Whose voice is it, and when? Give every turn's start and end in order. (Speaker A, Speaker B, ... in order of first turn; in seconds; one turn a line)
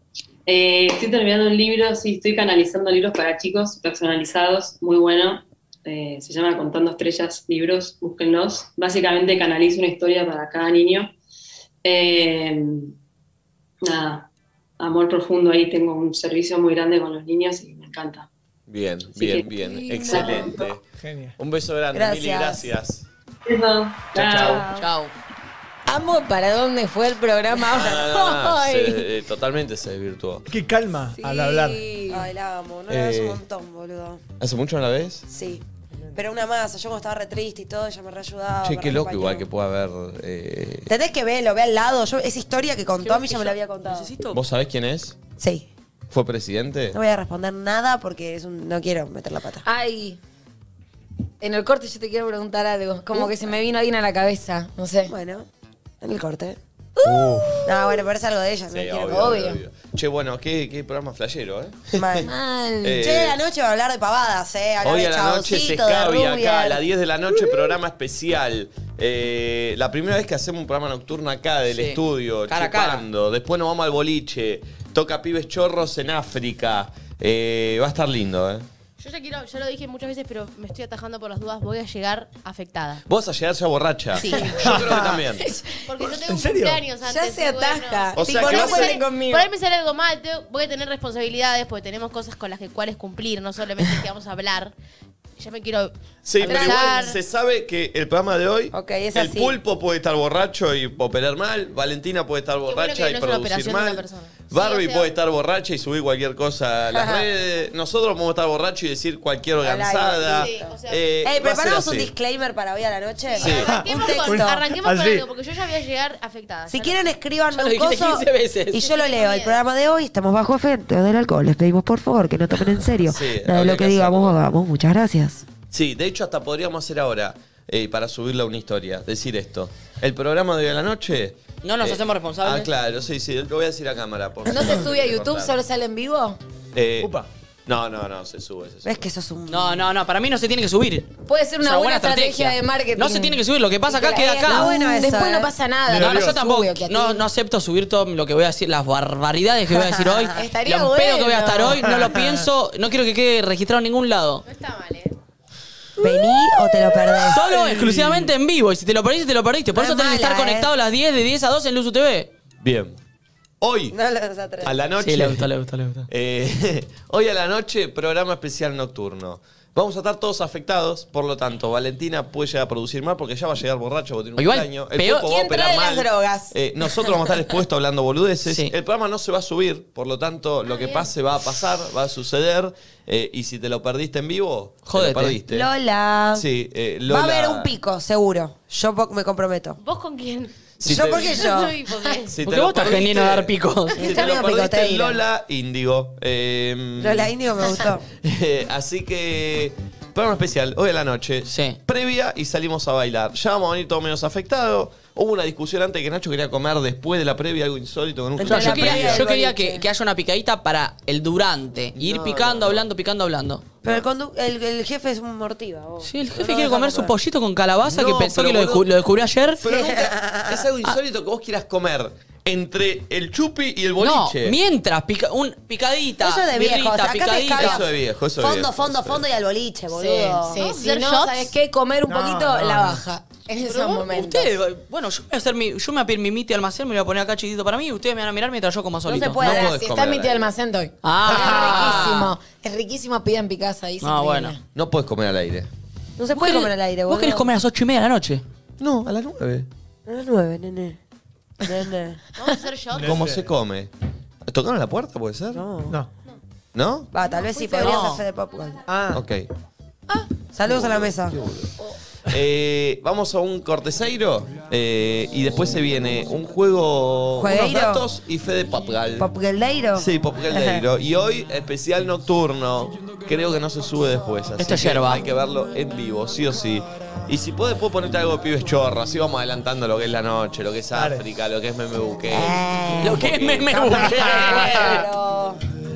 Speaker A: 0.5-11.1
Speaker A: 11.8-12.9
Speaker A: 13.8-18.3
Speaker B: 18.7-20.8
Speaker A: 19.1-20.7
Speaker C: 20.1-20.4
Speaker D: 21.0-21.4
Speaker B: 21.4-23.1
Speaker C: 21.9-22.7
Speaker A: 23.4-24.7
Speaker B: 24.1-24.6
Speaker C: 24.4-24.8
Speaker E: 24.6-25.1
Speaker F: 25.9-29.0
Speaker B: 27.7-30.4
Speaker D: 30.5-31.8
Speaker F: 31.1-32.2
Speaker C: 32.1-34.2
Speaker B: 32.9-33.4
Speaker B: 34.4-35.3
Speaker C: 35.3-39.5
Speaker B: 38.6-40.9
Speaker C: 40.9-44.2
Speaker E: 43.0-44.4
Speaker B: 44.3-45.2
Speaker C: 45.4-45.7
Speaker B: 46.1-47.0
Speaker C: 46.9-49.6
Speaker F: 49.6-50.2
Speaker F: 51.4-55.1
Speaker C: 53.1-53.5
Speaker C: 55.0-55.5
Speaker C: 56.0-56.6
Speaker F: 57.0-58.0
Speaker C: 57.6-59.4
Speaker B: 58.7-62.3
Speaker F: 59.1-59.6
Speaker C: 61.9-62.3
Speaker F: 62.2-63.0
Speaker B: 62.8-63.4
Speaker C: 63.0-66.8
Speaker B: 64.8-78.7
Speaker E: 71.7-73.0
Speaker G: 79.0-83.0
Speaker B: 83.1-85.5
Speaker F: 84.2-85.9
Speaker D: 84.5-85.2
Speaker G: 85.9-94.7
Speaker D: 86.0-86.8
Speaker F: 87.0-89.5
Speaker C: 88.1-88.8
Speaker B: 88.2-89.0
Speaker G: 95.4-97.2
Speaker B: 96.2-112.1
Speaker C: 96.4-96.9
Speaker C: 98.7-99.6
Speaker G: 102.7-105.1
Speaker C: 106.9-107.3
Speaker C: 109.6-114.6
Speaker G: 110.3-111.0
Speaker G: 113.3-117.0
Speaker B: 113.4-113.7
Speaker D: 113.6-115.2
Speaker C: 116.7-125.5
Speaker E: 117.5-118.8
Speaker G: 118.7-119.6
Speaker B: 123.0-124.4
Speaker B: 125.7-135.6
Speaker E: 131.6-132.7
Speaker F: 134.4-136.4
Speaker C: 134.6-134.8
Speaker B: 136.7-139.0
Speaker D: 137.0-137.3
Speaker C: 138.8-139.8
Speaker E: 139.5-144.7
Speaker F: 141.2-147.2
Speaker C: 144.4-145.5
Speaker D: 145.9-146.4
Speaker E: 146.0-154.4
Speaker C: 150.1-150.5
Speaker F: 150.3-151.9
Speaker D: 151.8-152.4
Speaker G: 154.4-155.2
Speaker C: 156.0-157.5
Speaker E: 157.2-162.3
Speaker D: 157.3-158.3
Speaker C: 159.7-160.7
Speaker B: 162.6-163.0
Speaker B: 163.6-164.0
Speaker C: 163.9-164.8
Speaker B: 164.6-165.5
Speaker E: 165.0-166.1
Speaker B: 166.1-185.7
Speaker E: 174.4-175.4
Speaker F: 175.3-176.5
Speaker E: 178.4-178.7
Speaker G: 180.7-181.1
Speaker E: 184.8-185.4
Speaker C: 185.5-186.4
Speaker B: 186.3-187.7
Speaker C: 187.1-189.8
Speaker G: 189.8-192.4
Speaker B: 190.8-191.5
Speaker C: 190.8-191.8
Speaker B: 192.3-209.3
Speaker E: 192.4-194.1
Speaker C: 194.0-195.2
Speaker C: 197.0-198.0
Speaker E: 201.4-201.8
Speaker C: 208.4-209.8
Speaker E: 208.4-213.6
Speaker B: 212.0-212.8
Speaker C: 213.8-217.1
Speaker E: 216.0-219.6
Speaker B: 217.8-218.8
Speaker B: 219.6-224.6
Speaker C: 219.6-220.7
Speaker E: 224.0-227.8
Speaker C: 226.2-230.7
Speaker B: 227.5-229.2
Speaker F: 229.9-234.5
Speaker G: 230.5-231.5
Speaker D: 232.0-233.0
Speaker E: 233.7-239.5
Speaker C: 239.1-239.7
Speaker B: 239.4-240.4
Speaker F: 239.4-244.6
Speaker E: 241.0-242.3
Speaker D: 241.3-241.7
Speaker E: 244.0-244.5
Speaker B: 244.7-245.7
Speaker C: 246.2-247.5
Speaker E: 246.3-248.4
Speaker B: 248.8-249.7
Speaker C: 250.1-251.0
Speaker C: 251.6-252.2
Speaker G: 252.3-253.3
Speaker D: 252.9-253.4
Speaker B: 253.0-253.9
Speaker B: 254.5-255.6
Speaker C: 255.5-256.0
Speaker B: 256.7-257.1
Speaker C: 257.1-258.8
Speaker E: 257.7-258.2
Speaker D: 258.9-259.2
Speaker B: 259.1-259.4
Speaker C: 260.5-261.4
Speaker B: 260.6-261.7
Speaker B: 262.2-269.3
Speaker C: 267.4-268.1
Speaker C: 269.2-270.8
Speaker B: 269.9-283.8
Speaker E: 274.6-275.2
Speaker D: 280.9-281.2
Speaker C: 282.3-283.2
Speaker E: 283.0-285.0
Speaker C: 283.7-285.6